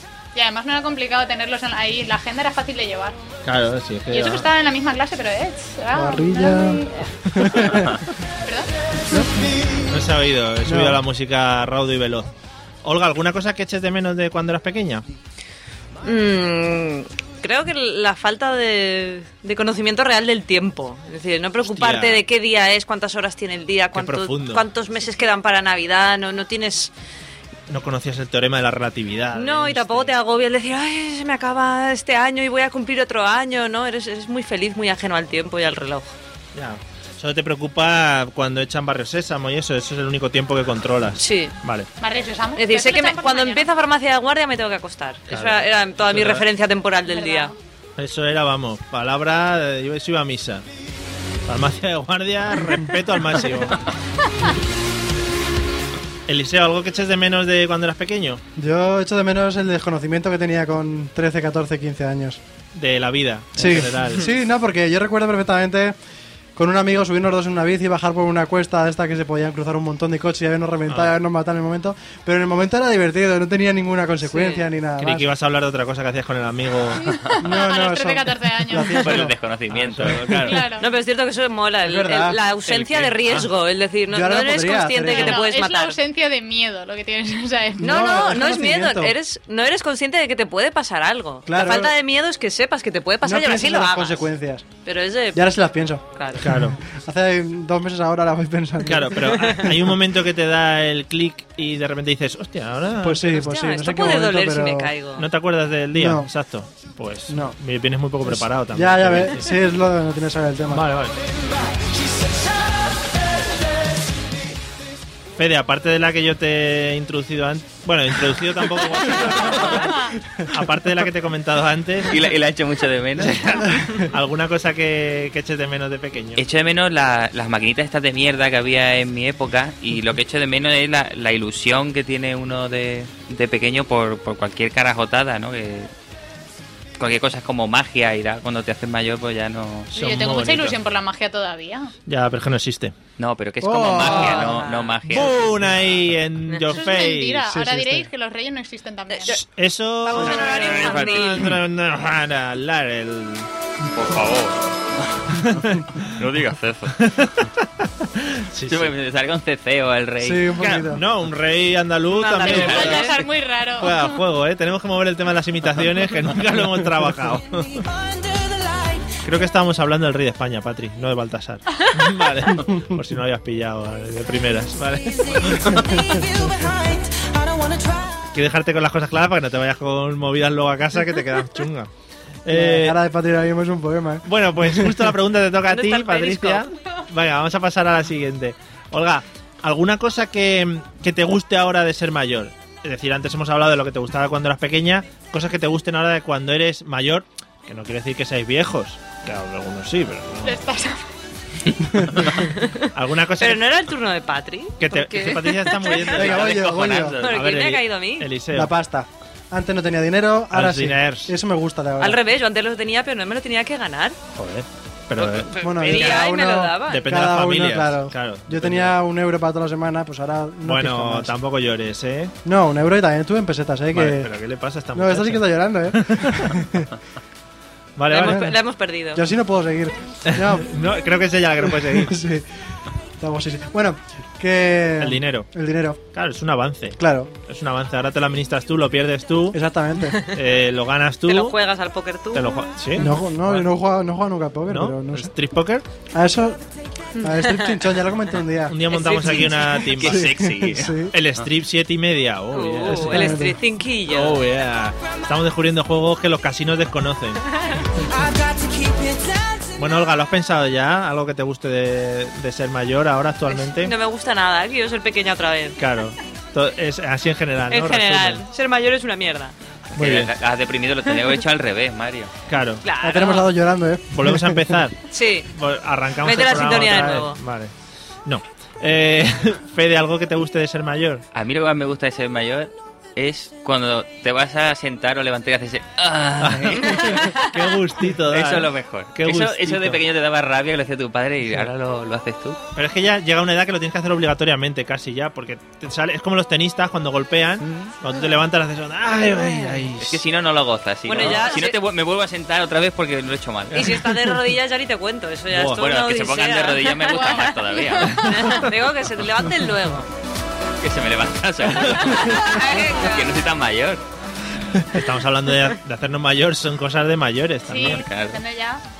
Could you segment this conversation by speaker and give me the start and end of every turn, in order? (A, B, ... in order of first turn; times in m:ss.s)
0:00.3-0:03.2 A
0:03.4-0:04.5 B
0:04.1-0:07.7 A
0:05.9-0:08.0 C
0:08.4-0:08.7 A
0:09.1-0:09.5 C
0:09.9-0:12.3 B
0:10.6-0:11.0 C
0:12.8-0:15.0 B
0:16.0-0:26.9 D
0:21.6-0:22.2 B
0:23.9-0:24.6 B
0:27.7-0:30.1 B
0:29.3-0:36.1 D
0:36.5-0:41.9 B
0:41.2-0:41.6 D
0:42.0-0:43.7 A
0:42.6-0:47.5 D
0:45.3-0:46.4 B
0:47.0-0:47.6 A
0:48.0-0:50.6 B
0:51.5-0:53.8 B
0:56.3-0:58.4 B
0:58.6-1:02.4 C
1:02.7-1:04.3 B
1:03.6-1:06.0 C
1:06.5-1:15.3 C
1:14.3-1:14.6 D
1:15.0-1:17.1 B
1:17.1-1:19.0 A
1:17.4-1:19.3 C
1:18.9-1:20.2 E
1:19.7-1:20.6 B
1:20.0-1:20.6 C
1:20.4-1:20.8 A
1:20.8-1:26.0 D
1:21.8-1:22.4 C
1:22.6-1:23.5 B
1:24.1-1:25.4 C
1:25.1-1:28.1 A
1:27.8-1:29.2 C
1:27.8-1:34.2 D
1:31.5-1:31.9 C
1:33.2-1:34.6 C
1:34.8-1:35.4 D
1:35.3-1:39.8 C
1:36.2-1:36.4 D
1:36.4-1:36.8 B
1:38.8-1:43.3 B
1:43.0-1:44.9 C
1:43.3-1:45.3 D
1:45.2-1:49.4 B
1:45.9-1:46.3 C
1:47.3-1:47.6 C
1:48.2-1:50.8 C
1:50.7-1:51.2 B
1:55.4-2:02.2 B
2:02.1-2:03.6 E
2:03.2-2:06.4 B
2:06.4-2:15.9 E
2:17.0-2:19.9 E
2:19.9-2:21.9 A
2:19.9-2:20.8 B
2:22.1-2:22.9 B
2:23.2-2:25.4 E
2:23.6-2:24.6 C
2:24.0-2:25.0 D
2:25.1-2:27.5 B
2:26.7-2:29.3 A
2:27.4-2:28.1 C
2:29.1-2:29.4 D
2:29.3-2:33.5 B
2:30.0-2:31.5 D
2:30.5-2:31.5 E
2:34.0-2:34.6 E
2:35.3-2:36.1 B
2:36.0-2:37.1 E
2:36.9-2:38.9 B
2:38.7-2:40.5 E
2:40.2-2:41.0 C
2:40.6-2:43.1 B
2:42.1-2:43.1 D
2:42.4-2:44.2 A
2:42.5-2:43.1 E
2:43.8-2:47.9 B
2:49.2-2:55.8 B
2:55.6-2:56.3 C
2:58.3-3:01.9 B
3:02.4-3:03.0 B
3:02.5-3:05.1 C
3:04.2-3:20.6 B
3:05.7-3:06.6 D
3:20.4-3:21.0 A
3:22.5-3:22.9 D
3:22.9-3:23.7 B
3:23.4-3:26.2 D
3:24.8-3:28.7 B
3:26.1-3:27.2 C
3:26.3-3:27.4 E
3:27.2-3:28.3 D
3:28.5-3:32.2 C
3:30.5-3:31.3 B
3:32.0-3:34.2 D
3:34.3-3:36.2 B
3:35.2-3:37.0 D
3:35.6-3:41.3 C
3:36.9-3:38.9 B
3:40.6-3:42.3 B
3:42.4-3:44.3 C
3:43.9-3:46.6 B
3:44.9-3:46.9 C
3:48.0-3:48.4 B
3:48.1-3:49.2 D
3:48.2-3:48.5 C
3:49.1-3:50.7 C
3:50.2-3:52.1 B
3:51.6-3:52.4 C
3:53.2-3:56.0 C
3:55.0-3:55.5 B
3:56.1-3:59.6 B
3:57.0-3:57.3 C
3:59.5-4:00.2 C
4:00.2-4:01.6 B
4:01.2-4:02.7 D
4:02.3-4:03.7 B
4:02.9-4:05.3 C
4:04.7-4:05.8 B
4:06.1-4:06.6 C
4:07.2-4:07.8 D
4:07.2-4:08.8 C
4:08.7-4:10.3 B
4:08.9-4:09.9 D
4:09.9-4:11.0 E
4:10.0-4:11.1 C
4:11.1-4:13.4 B
4:12.5-4:14.4 D
4:12.9-4:13.6 C
4:14.0-4:17.4 B
4:19.8-4:23.9 B
4:23.5-4:25.8 D
4:25.8-4:28.4 B
4:27.7-4:29.5 D
4:30.0-4:30.3 B
4:30.0-4:32.3 E
4:32.5-4:32.8 B
4:32.8-4:33.5 D
4:33.0-4:34.8 C
4:34.1-4:35.0 B
4:35.1-4:35.5 D
4:35.5-4:37.7 B
4:36.2-4:37.4 D
4:38.2-4:41.2 B
4:41.3-4:47.4 E
4:46.4-4:50.0 B
4:46.9-4:47.5 D
4:48.3-4:52.6 E
4:52.8-5:00.2 B
5:00.0-5:04.0 E
5:01.0-5:01.8 D
5:03.7-5:07.5 D
5:05.5-5:05.9 B
5:05.7-5:08.3 E
5:07.0-5:08.2 A
5:08.2-5:10.1 D
5:08.2-5:08.7 B
5:10.8-5:14.0 E
5:11.9-5:13.5 D
5:14.8-5:18.0 B
5:17.7-5:18.8 A
5:17.7-5:18.4 E